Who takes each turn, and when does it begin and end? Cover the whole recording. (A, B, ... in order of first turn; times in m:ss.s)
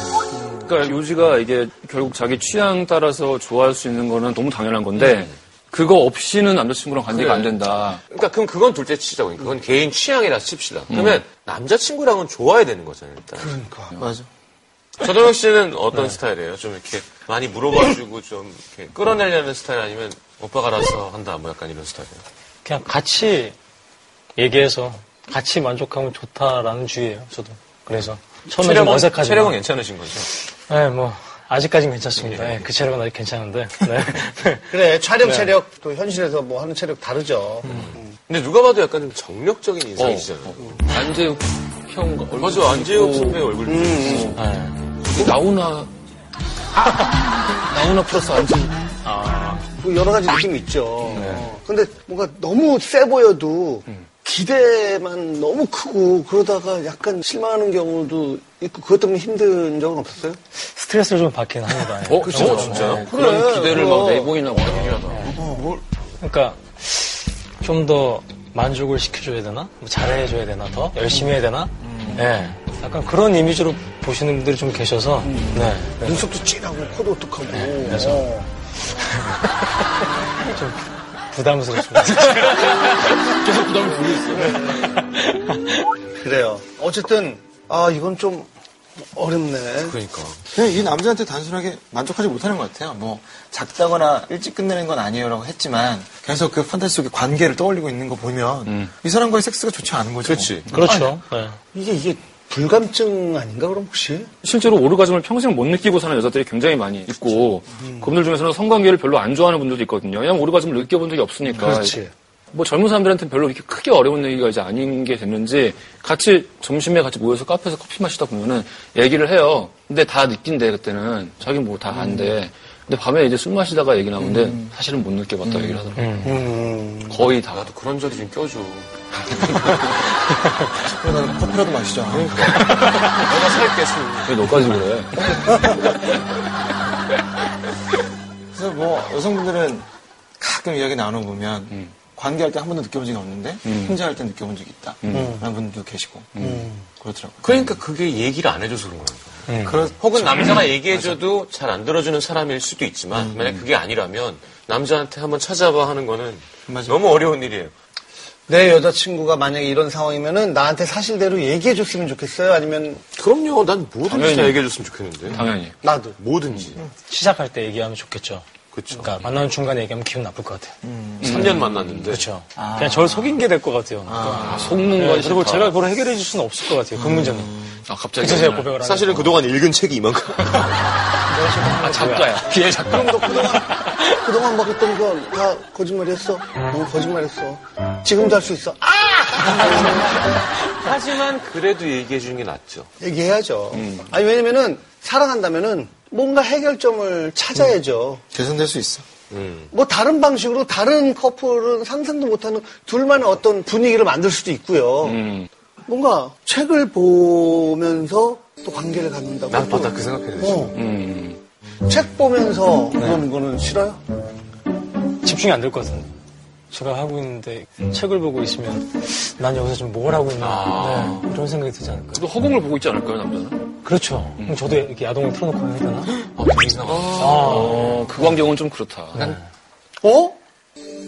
0:00.4-0:08.0 A
0:07.1-0:13.5 B
0:10.9-0:11.2 A
0:13.4-0:14.0 C
0:14.0-0:14.3 D
0:15.0-0:22.2 B
0:22.6-0:23.6 E
0:24.4-0:29.6 E
0:28.4-0:30.3 B
0:30.5-0:35.5 E
0:32.2-0:32.7 B
0:34.7-0:38.1 C
0:37.7-0:40.8 B
0:40.0-0:44.4 A
0:42.3-0:44.4 B
0:43.7-0:44.3 C
0:44.3-0:44.9 E
0:45.0-0:45.9 A
0:47.7-0:48.7 C
0:49.0-0:49.6 E
0:49.6-1:00.4 C
0:51.0-0:51.4 A
1:00.6-1:03.0 E
1:02.0-1:05.4 A
1:02.1-1:03.0 B
1:02.9-1:04.4 C
1:04.4-1:05.8 B
1:05.3-1:05.7 C
1:06.2-1:16.2 E
1:11.8-1:12.3 D
1:15.2-1:15.7 A
1:16.0-1:18.5 C
1:17.5-1:18.3 E
1:18.9-1:19.5 E
1:20.4-1:22.7 E
1:22.2-1:24.8 A
1:24.7-1:25.8 E
1:26.2-1:28.5 C
1:29.1-1:30.0 C
1:29.8-1:30.4 B
1:30.5-1:40.6 D
1:40.2-1:40.8 B
1:40.7-1:41.6 E
1:41.7-1:44.3 C
1:44.4-2:06.4 A
1:51.6-1:52.0 C
2:01.9-2:02.3 D
2:04.2-2:04.7 D
2:05.4-2:05.9 D
2:06.0-2:06.3 E
2:06.2-2:07.3 C
2:07.1-2:07.7 A
2:07.3-2:10.1 B
2:10.7-2:13.0 D
2:12.1-2:14.4 B
2:12.8-2:13.2 A
2:14.2-2:16.0 A
2:15.3-2:15.6 D
2:18.5-2:19.8 D
2:20.4-2:27.5 D
2:23.6-2:24.0 A
2:25.0-2:25.4 A
2:25.1-2:25.4 C
2:26.3-2:26.6 A
2:26.4-2:26.8 C
2:27.4-2:37.7 B
2:29.5-2:29.8 E
2:29.6-2:31.1 D
2:33.1-2:33.6 D
2:36.6-2:37.0 D
2:38.5-2:43.0 C
2:43.2-2:45.4 B
2:44.1-2:44.6 A
2:45.3-2:45.7 A
2:45.8-2:46.2 C
2:46.2-2:46.8 B
2:46.9-2:50.8 E
2:48.7-2:49.1 B
2:50.8-2:52.0 D
2:51.2-2:52.3 B
2:51.2-2:51.8 A
2:52.1-2:57.6 E
2:52.6-2:53.5 D
2:54.0-2:54.8 D
2:54.3-2:55.8 A
2:56.9-2:57.8 D
2:57.8-2:58.7 A
2:58.2-2:59.4 E
2:58.7-3:00.8 B
3:01.3-3:02.4 E
3:01.7-3:03.7 A
3:02.8-3:10.3 C
3:03.7-3:04.2 E
3:10.6-3:12.9 B
3:13.0-3:18.2 C
3:13.7-3:14.0 A
3:18.3-3:19.0 D
3:19.3-3:19.7 B
3:19.7-3:25.2 C
3:25.0-3:25.5 A
3:25.8-3:30.8 C
3:29.5-3:30.7 B
3:30.7-3:31.4 A
3:31.8-3:34.0 C
3:33.0-3:33.2 E
3:35.2-3:36.1 E
3:36.7-3:42.3 E
3:40.4-3:41.3 B
3:42.1-3:43.8 A
3:43.8-3:46.1 E
3:46.2-3:48.0 B
3:46.9-3:49.3 A
3:47.2-3:48.2 E
3:50.0-3:50.4 C